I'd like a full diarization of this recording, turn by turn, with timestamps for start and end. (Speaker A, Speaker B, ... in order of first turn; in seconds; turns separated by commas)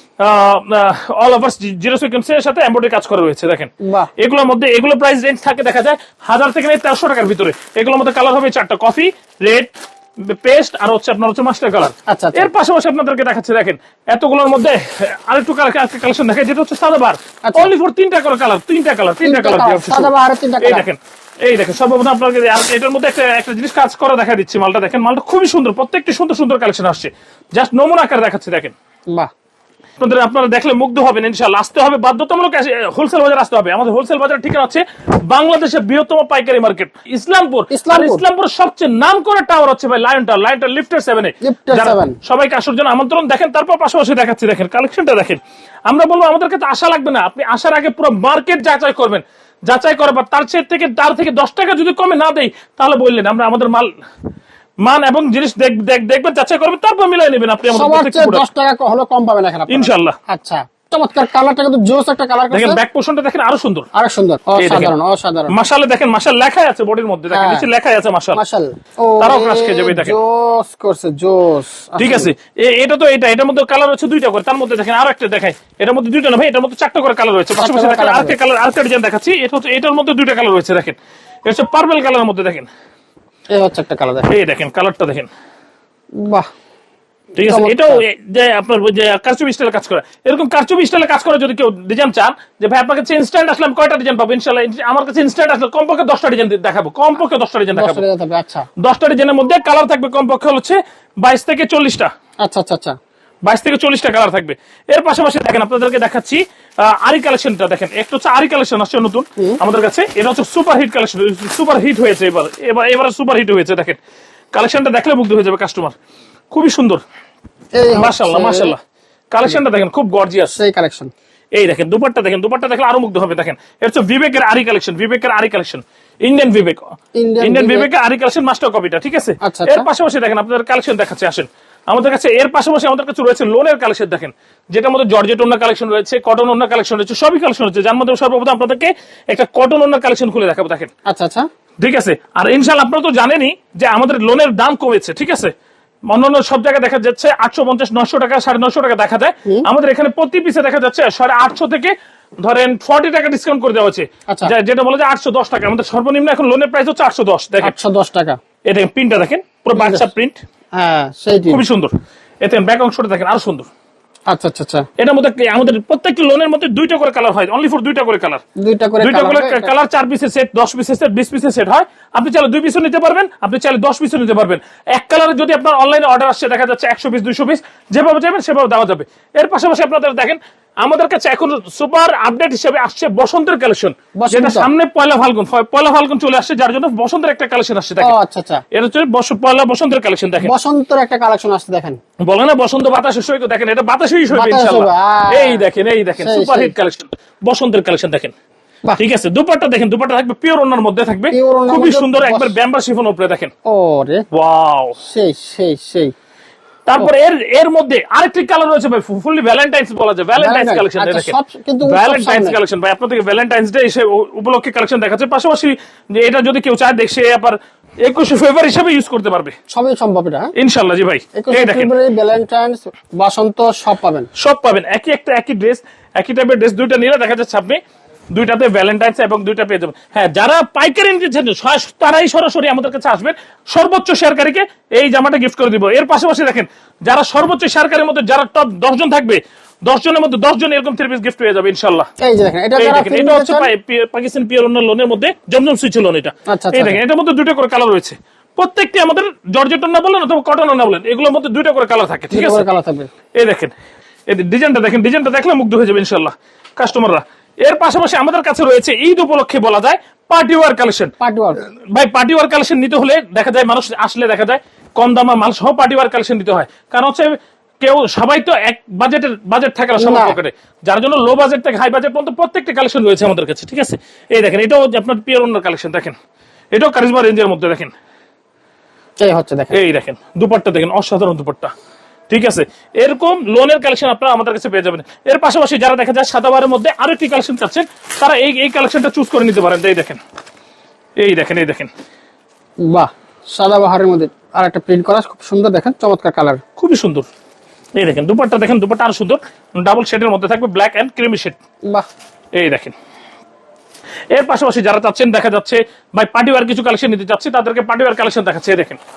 Speaker A: 0.2-28.7, Speaker B: 12.1-12.5, Speaker B: 17.4-17.7, Speaker B: 19.2-20.9, Speaker A: 30.0-53.9, Speaker B: 37.7-38.2, Speaker B: 41.4-42.2, Speaker A: 54.8-58.4, Speaker B: 57.7-62.8, Speaker A: 59.7-60.1, Speaker A: 62.5-63.9, Speaker B: 63.9-65.5, Speaker A: 64.6-64.9, Speaker A: 65.5-68.4, Speaker B: 67.3-67.7, Speaker B: 68.3-72.3, Speaker A: 69.2-70.2, Speaker A: 72.0-82.7, Speaker B: 77.6-78.3, Speaker B: 83.5-84.3, Speaker A: 84.3-85.3, Speaker B: 86.2-86.5, Speaker A: 87.3-98.0, Speaker B: 87.4-88.0, Speaker B: 97.7-98.7, Speaker A: 98.8-102.1, Speaker B: 102.4-102.9, Speaker A: 103.4-114.0, Speaker A: 114.5-115.9, Speaker A: 116.5-117.0, Speaker B: 117.8-118.7, Speaker A: 117.9-118.8, Speaker A: 119.3-120.6, Speaker B: 120.5-121.1, Speaker A: 121.5-126.8, Speaker B: 127.2-127.9, Speaker A: 127.4-140.9, Speaker B: 129.4-129.9, Speaker B: 141.1-141.4, Speaker A: 141.8-145.5, Speaker A: 146.1-157.8, Speaker B: 157.6-158.4, Speaker A: 158.7-160.4, Speaker B: 159.7-160.1, Speaker B: 160.7-161.6, Speaker A: 161.5-163.7, Speaker B: 164.3-164.9, Speaker A: 165.0-168.4, Speaker B: 168.6-169.7, Speaker A: 169.0-188.2, Speaker B: 184.2-184.7, Speaker B: 188.0-188.6, Speaker A: 188.7-190.5, Speaker B: 190.4-192.0, Speaker A: 192.2-198.3, Speaker B: 194.3-195.6, Speaker B: 196.2-196.7, Speaker A: 199.0-203.5, Speaker B: 201.3-202.6, Speaker B: 203.7-204.2, Speaker A: 204.3-205.0, Speaker B: 205.0-206.1, Speaker A: 206.8-219.5, Speaker B: 210.4-212.6, Speaker B: 219.7-220.5, Speaker A: 220.6-221.9, Speaker B: 221.3-224.3, Speaker A: 224.4-227.8, Speaker A: 228.3-242.1, Speaker B: 242.2-243.7, Speaker A: 242.8-252.7, Speaker B: 246.5-247.0, Speaker B: 252.3-253.1, Speaker A: 253.3-253.7, Speaker A: 254.3-261.1, Speaker B: 261.2-261.6, Speaker A: 261.9-276.1, Speaker B: 270.0-270.4, Speaker A: 276.7-277.9, Speaker B: 279.2-279.8, Speaker A: 279.7-281.7, Speaker A: 282.3-290.2, Speaker A: 291.2-291.9, Speaker B: 292.8-296.6, Speaker A: 296.8-297.3, Speaker A: 298.0-301.6, Speaker A: 302.5-302.9, Speaker A: 304.3-309.0